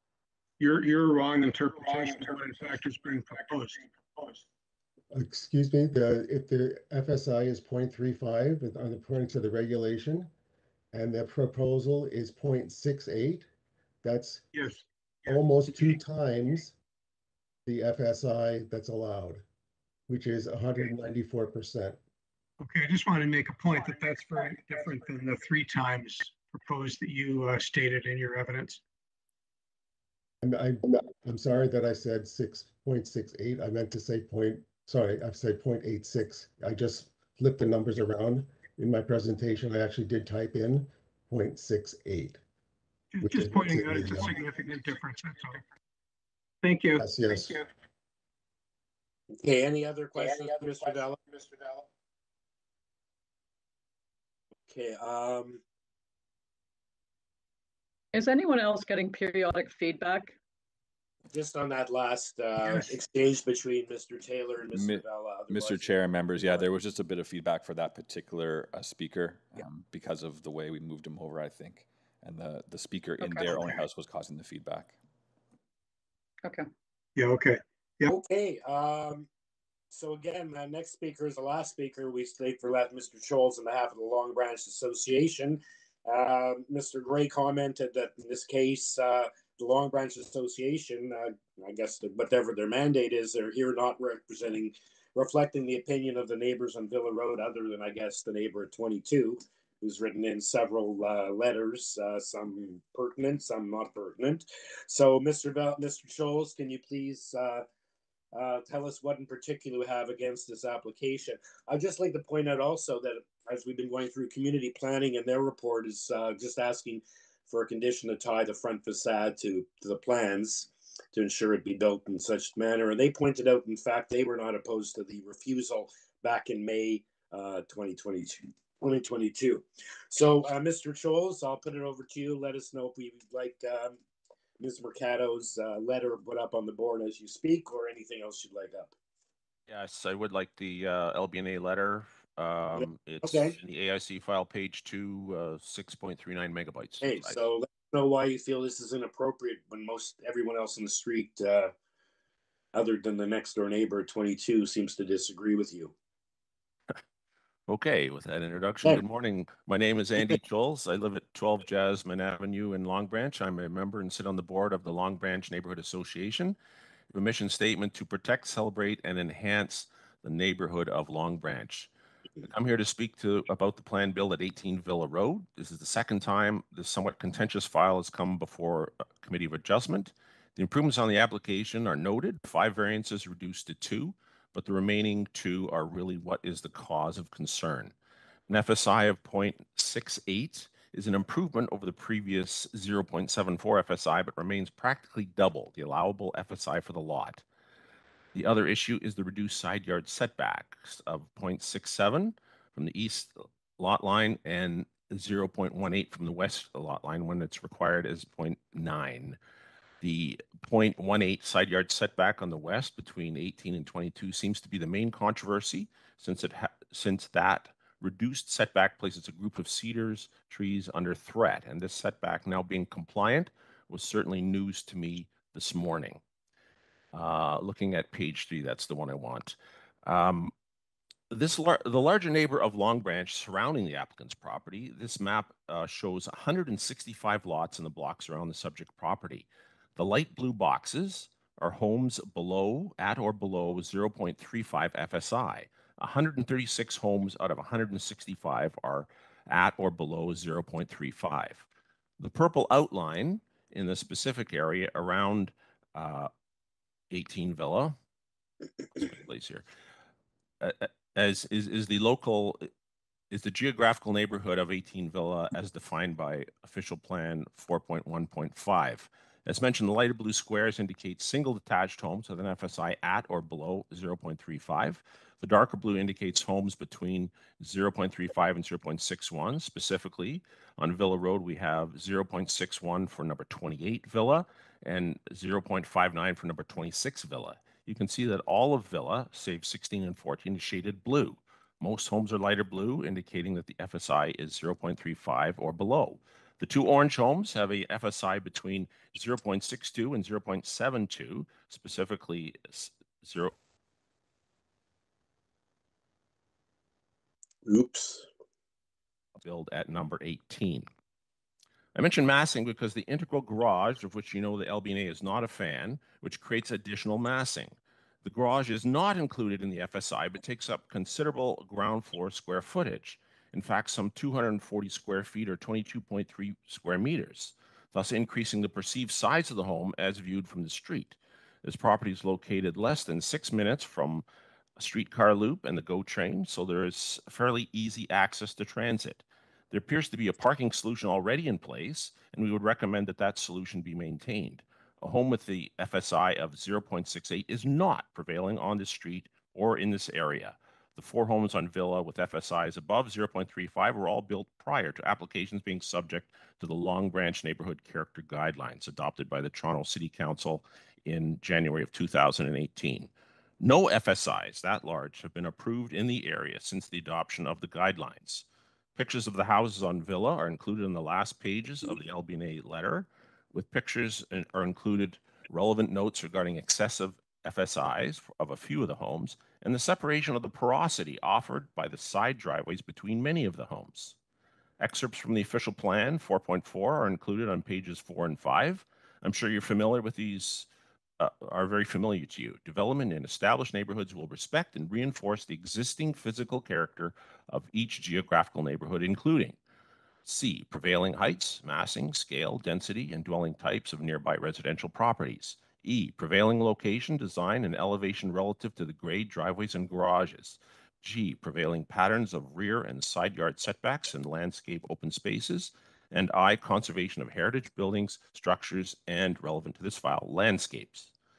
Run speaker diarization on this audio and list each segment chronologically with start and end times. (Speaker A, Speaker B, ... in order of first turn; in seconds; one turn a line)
Speaker A: 0.6-3.8
Speaker B: 5.1-10.3
Speaker B: 10.9-13.5
Speaker B: 14.0-14.4
Speaker A: 14.5-14.8
Speaker B: 15.2-16.7
Speaker B: 17.6-19.4
Speaker B: 20.1-22.0
Speaker A: 22.6-28.8
Speaker B: 30.4-42.4
Speaker A: 43.1-45.6
Speaker B: 43.2-44.4
Speaker A: 46.6-47.1
Speaker B: 47.0-47.6
Speaker C: 49.4-51.2
Speaker C: 54.7-55.6
Speaker D: 58.1-60.4
Speaker C: 61.3-66.7
Speaker E: 64.7-75.0
Speaker D: 73.2-73.7
Speaker A: 77.2-78.1
Speaker C: 78.1-79.3
Speaker C: 79.9-107.6
Speaker C: 108.3-134.0
Speaker C: 134.6-138.9
Speaker F: 139.7-147.4
Speaker C: 142.7-143.6
Speaker C: 147.0-151.7
Speaker C: 152.7-155.9
Speaker F: 157.7-166.6
Speaker F: 167.1-171.9
Speaker F: 172.4-187.9
Speaker F: 188.5-197.4
Speaker F: 198.3-209.4
Speaker F: 210.0-226.2
Speaker F: 227.1-230.5
Speaker F: 231.3-251.7
Speaker F: 252.2-256.3
Speaker F: 257.1-257.9
Speaker F: 259.1-259.6
Speaker F: 260.6-262.7
Speaker F: 263.3-303.5
Speaker C: 307.6-308.2
Speaker F: 309.4-310.9
Speaker F: 311.9-334.2
Speaker F: 334.8-363.1
Speaker F: 363.6-384.1
Speaker F: 384.8-390.7
Speaker F: 391.2-399.6
Speaker F: 400.2-421.1